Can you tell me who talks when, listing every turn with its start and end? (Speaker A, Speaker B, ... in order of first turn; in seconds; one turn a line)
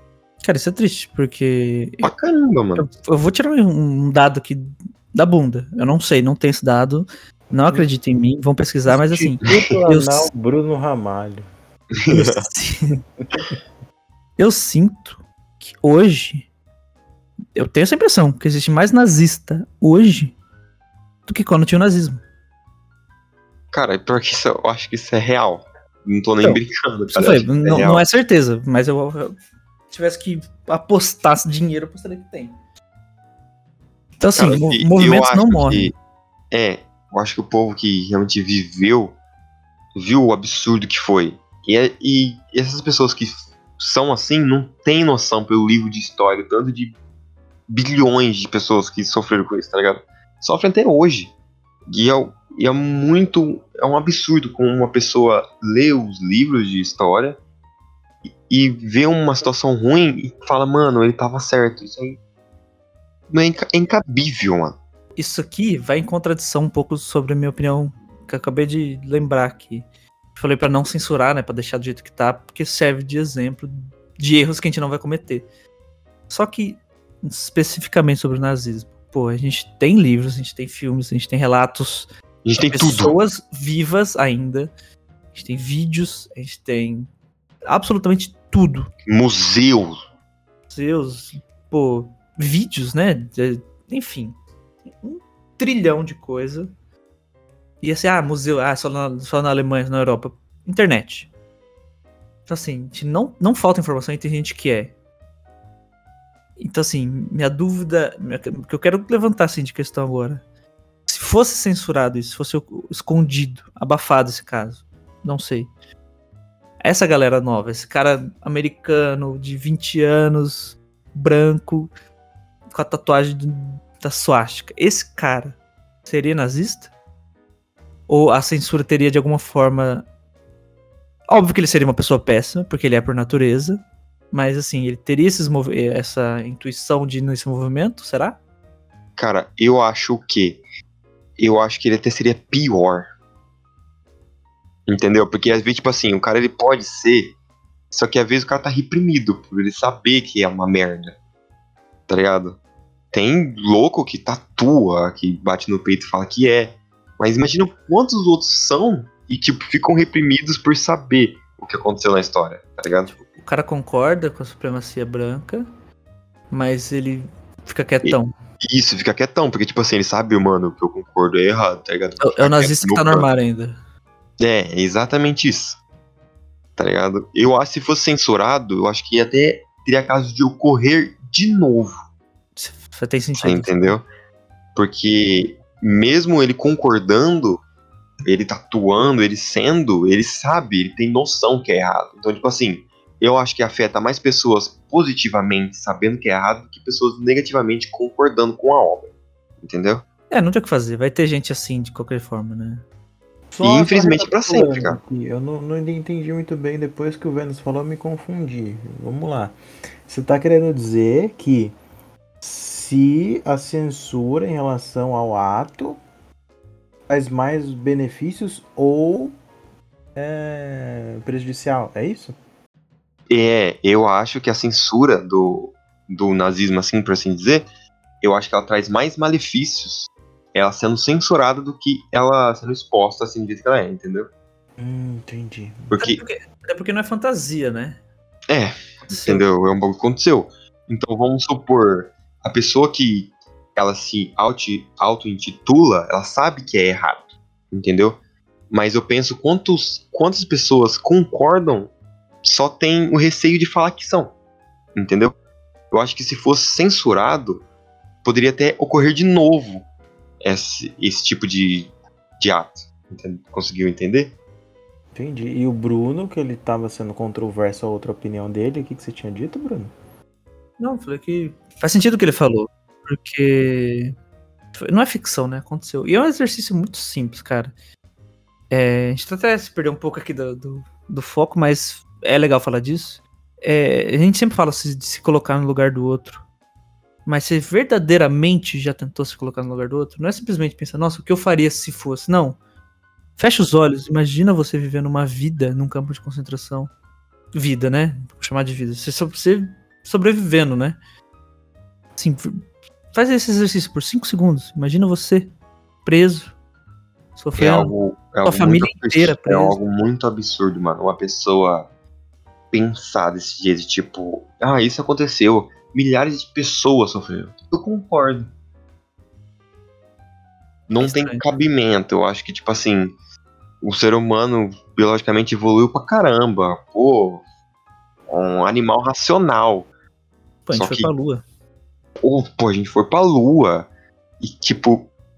Speaker A: 0.4-2.1
Speaker B: 2.0-2.9
Speaker A: 2.8-10.3
Speaker C: 8.9-11.4
Speaker B: 9.4-9.7
Speaker B: 12.0-12.4
Speaker A: 12.1-13.0
Speaker A: 14.4-16.5
Speaker A: 17.6-20.4
Speaker A: 21.3-22.2
Speaker B: 23.7-28.1
Speaker A: 26.4-29.3
Speaker A: 29.9-32.5
Speaker A: 34.2-35.9
Speaker B: 34.3-35.9
Speaker B: 36.5-39.1
Speaker B: 39.9-46.9
Speaker B: 47.7-51.3
Speaker B: 51.9-57.4
Speaker B: 58.5-62.2
Speaker B: 63.3-64.8
Speaker A: 65.2-75.4
Speaker A: 76.3-82.1
Speaker B: 82.4-83.1
Speaker A: 82.6-84.7
Speaker A: 85.3-87.1
Speaker A: 87.7-88.9
Speaker B: 89.1-90.0
Speaker A: 90.7-94.4
Speaker A: 94.9-96.7
Speaker A: 97.8-101.3
Speaker A: 102.5-104.9
Speaker A: 106.6-110.4
Speaker A: 111.1-115.7
Speaker A: 116.8-121.9
Speaker A: 122.7-126.9
Speaker A: 128.1-130.1
Speaker A: 131.3-133.8
Speaker A: 134.3-138.4
Speaker B: 139.2-140.6
Speaker B: 141.4-143.1
Speaker B: 144.9-147.3
Speaker B: 147.9-151.2
Speaker B: 152.1-152.6
Speaker B: 153.1-163.1
Speaker A: 163.1-165.7
Speaker A: 166.5-168.3
Speaker B: 168.0-173.3
Speaker A: 172.2-173.8
Speaker B: 174.4-175.8
Speaker B: 176.8-181.9
Speaker A: 182.6-184.0
Speaker B: 183.3-184.1
Speaker B: 184.7-187.6
Speaker B: 188.2-199.1
Speaker B: 199.6-200.0
Speaker A: 200.3-202.8
Speaker A: 203.5-204.8
Speaker B: 203.6-205.0
Speaker C: 204.7-209.6
Speaker C: 210.1-211.8
Speaker C: 212.4-216.0
Speaker C: 217.1-219.3
Speaker C: 220.1-222.4
Speaker B: 223.3-227.7
Speaker B: 228.2-234.3
Speaker C: 234.8-235.9
Speaker B: 235.9-236.2
Speaker A: 236.0-238.0
Speaker B: 238.5-248.2
Speaker A: 239.1-239.4
Speaker B: 248.7-251.9
Speaker B: 252.4-254.3
Speaker B: 254.9-255.3
Speaker B: 255.9-257.6
Speaker B: 258.2-259.8
Speaker B: 260.4-264.3
Speaker C: 265.1-269.9
Speaker A: 270.8-274.1
Speaker A: 274.7-277.7
Speaker A: 278.7-286.4
Speaker A: 287.2-292.6
Speaker A: 293.4-296.9
Speaker A: 297.5-301.0
Speaker A: 302.2-302.6
Speaker A: 303.1-305.5
Speaker A: 306.0-306.5
Speaker A: 307.4-307.9
Speaker B: 307.6-311.9
Speaker A: 308.4-309.8
Speaker B: 312.7-318.5
Speaker B: 320.9-323.1
Speaker A: 321.0-321.4
Speaker B: 323.8-327.4
Speaker B: 328.3-329.9
Speaker A: 330.6-331.4
Speaker B: 330.7-331.1
Speaker B: 332.2-333.9
Speaker B: 334.4-335.1